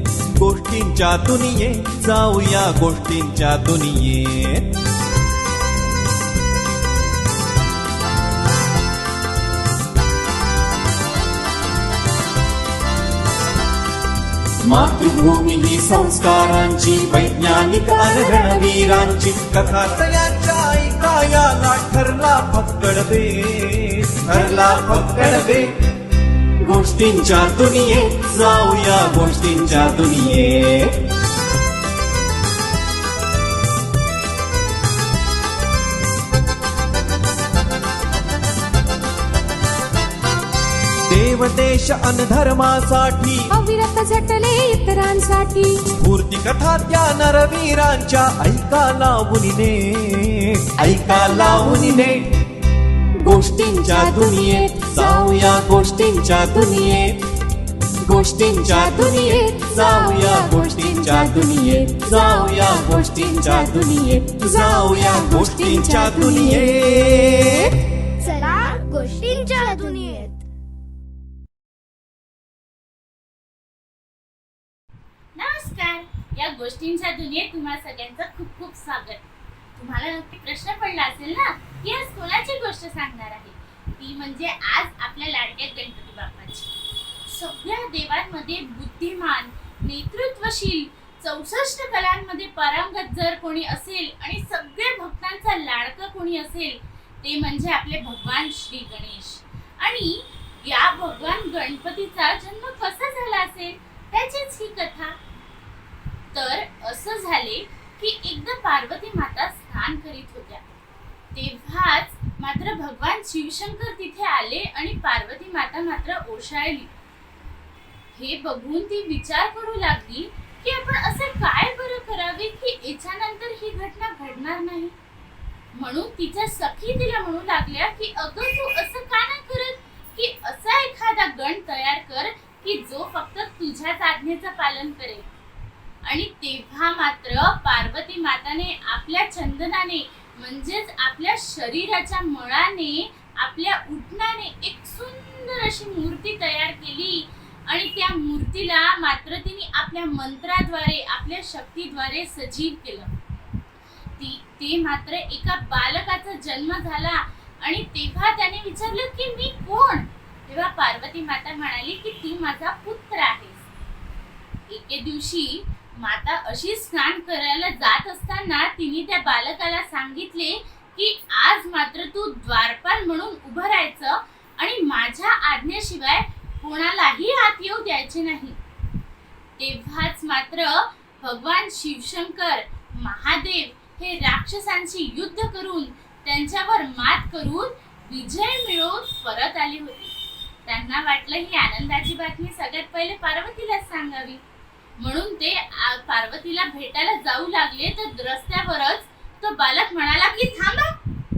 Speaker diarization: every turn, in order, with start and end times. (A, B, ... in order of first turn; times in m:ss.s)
0:00.4-0:04.7 A
0:14.6-0:25.7 A
0:26.6-0:31.0 A
0:41.1-0:43.6 A
0:43.5-0:45.8 B
0:45.9-0:52.4 A
0:51.2-0:51.9 B
0:53.2-0:57.2 A
0:53.3-0:55.2 B
0:58.0-1:07.8 A
0:58.4-1:06.6 B
1:08.2-1:10.4 C
1:15.4-1:19.2 D
1:19.8-1:26.7 D
1:27.2-1:45.2 D
1:46.3-1:50.6 D
1:51.3-1:56.9 D
1:58.1-2:04.9 D
2:05.7-2:15.3 D
2:16.0-2:33.1 D
2:34.2-2:43.6 D
2:44.7-2:58.6 D
2:59.6-3:10.1 D
3:10.6-3:14.4 D
3:15.0-3:21.0 D